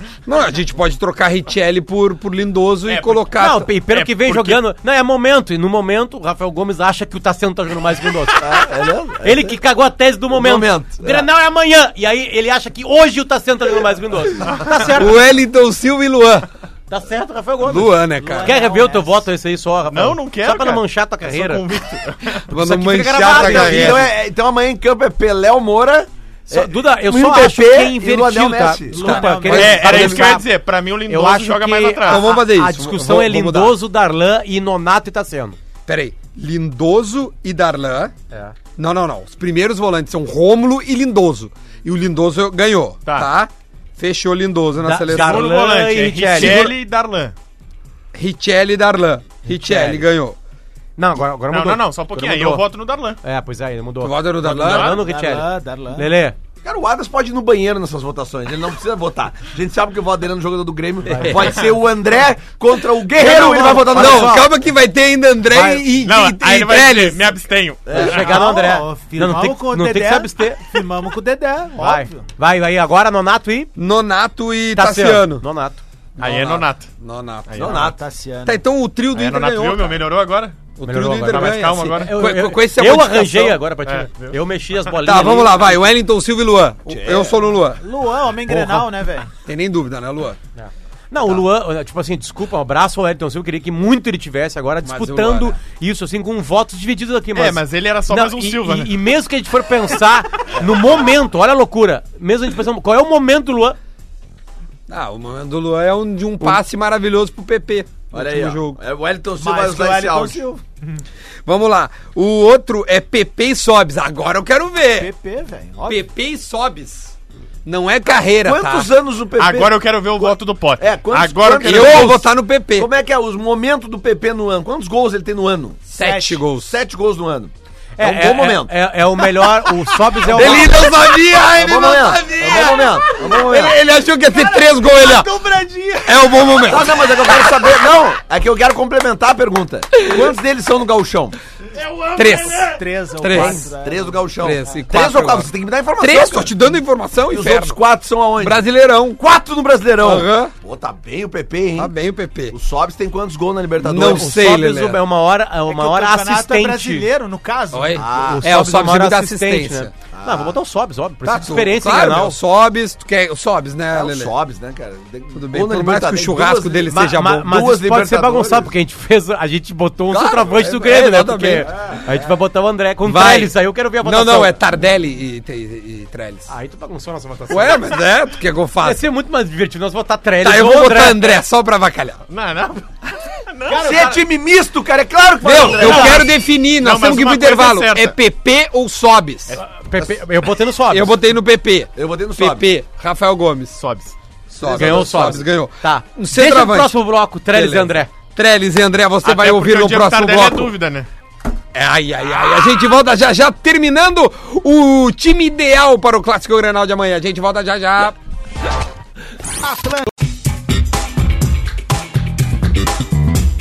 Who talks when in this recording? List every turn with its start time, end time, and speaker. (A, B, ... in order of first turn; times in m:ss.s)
0:00.2-0:03.7 A
0:02.9-0:03.3 B
0:03.4-0:08.7 C
0:03.9-0:04.6 B
0:08.4-0:09.6 D
0:09.2-0:15.2 C
0:10.3-0:11.3 D
0:14.4-0:14.9 B
0:14.8-0:16.5 A
0:16.9-0:21.6 C
0:17.6-0:18.6 A
0:18.2-0:19.2 E
0:19.9-0:22.4 B
0:22.4-0:24.1 A
0:22.5-0:24.0 C
0:23.3-0:29.2 D
0:26.5-0:30.4 C
0:28.9-0:30.0 E
0:29.0-0:30.4 A
0:29.5-0:32.2 B
0:31.1-0:35.6 C
0:32.0-0:33.8 A
0:35.8-0:38.1 A
0:38.8-0:45.5 A
0:44.8-0:46.6 C
0:45.1-0:47.3 B
0:46.3-0:46.7 A
0:48.1-0:50.4 A
0:49.4-0:50.1 C
0:51.0-0:52.6 C
0:51.5-0:53.2 B
0:53.2-0:56.4 C
0:54.0-0:54.9 A
0:54.6-0:55.0 B
0:54.9-0:56.1 E
0:56.6-1:04.5 D
1:01.0-1:01.6 C
1:01.3-1:01.7 B
1:03.1-1:07.4 A
1:03.2-1:04.4 C
1:05.5-1:05.8 C
1:06.0-1:08.3 B
1:07.8-1:08.3 D
1:07.9-1:10.8 C
1:08.1-1:12.2 E
1:11.8-1:13.7 C
1:13.8-1:15.4 A
1:14.7-1:15.8 C
1:16.2-1:16.9 B
1:16.2-1:17.9 A
1:17.5-1:17.9 B
1:17.6-1:18.0 D
1:17.7-1:18.6 E
1:18.4-1:20.0 A
1:19.1-1:20.7 B
1:20.8-1:23.6 A
1:20.8-1:25.8 C
1:21.2-1:22.2 B
1:23.8-1:24.4 B
1:25.0-1:27.8 A
1:26.9-1:27.4 D
1:27.8-1:29.3 E
1:28.5-1:30.4 A
1:30.6-1:43.8 C
1:34.8-1:35.6 A
1:37.3-1:39.0 B
1:44.9-1:48.8 A
1:48.1-1:50.6 D
1:49.4-1:51.0 E
1:51.4-1:55.1 A
1:55.0-1:56.0 E
1:55.9-1:58.9 A
1:58.4-2:05.9 D
1:59.4-2:02.2 B
2:01.6-2:02.9 A
2:05.9-2:06.7 A
2:05.9-2:06.4 E
2:06.5-2:08.7 D
2:08.0-2:10.7 C
2:10.2-2:15.3 A
2:10.3-2:10.9 D
2:11.4-2:13.8 D
2:14.3-2:16.7 E
2:16.0-2:17.6 A
2:16.6-2:21.4 D
2:22.1-2:23.7 A
2:22.4-2:24.8 E
2:23.3-2:26.5 D
2:24.4-2:27.8 A
2:27.3-2:28.6 D
2:28.4-2:29.2 A
2:29.2-2:31.9 D
2:30.0-2:30.5 A
2:31.8-2:32.6 A
2:32.5-2:34.3 D
2:33.8-2:35.0 A
2:33.9-2:37.1 C
2:35.7-2:38.0 E
2:37.7-2:39.9 A
2:38.0-2:38.5 D
2:38.0-2:42.4 C
2:40.1-2:40.6 D
2:41.2-2:44.3 A
2:43.9-2:48.7 D
2:45.3-2:47.5 A
2:46.9-2:54.6 C
2:50.1-2:51.7 A
2:51.6-2:52.2 D
2:53.0-2:56.5 A
2:56.5-2:57.9 C
2:57.5-2:59.0 A
2:58.8-3:01.4 C
3:00.4-3:02.2 A
3:02.3-3:04.2 B
3:03.7-3:06.3 D
3:03.7-3:04.1 E
3:05.4-3:09.6 A
3:05.7-3:06.2 B
3:06.8-3:08.2 B
3:09.6-3:11.1 C
3:10.9-3:13.8 A
3:11.9-3:12.6 D
3:13.8-3:14.2 B
3:14.5-3:17.0 A
3:14.7-3:18.1 C
3:14.7-3:15.0 D
3:17.5-3:20.7 A
3:19.2-3:21.1 B
3:21.7-3:28.2 A
3:29.6-3:30.1 E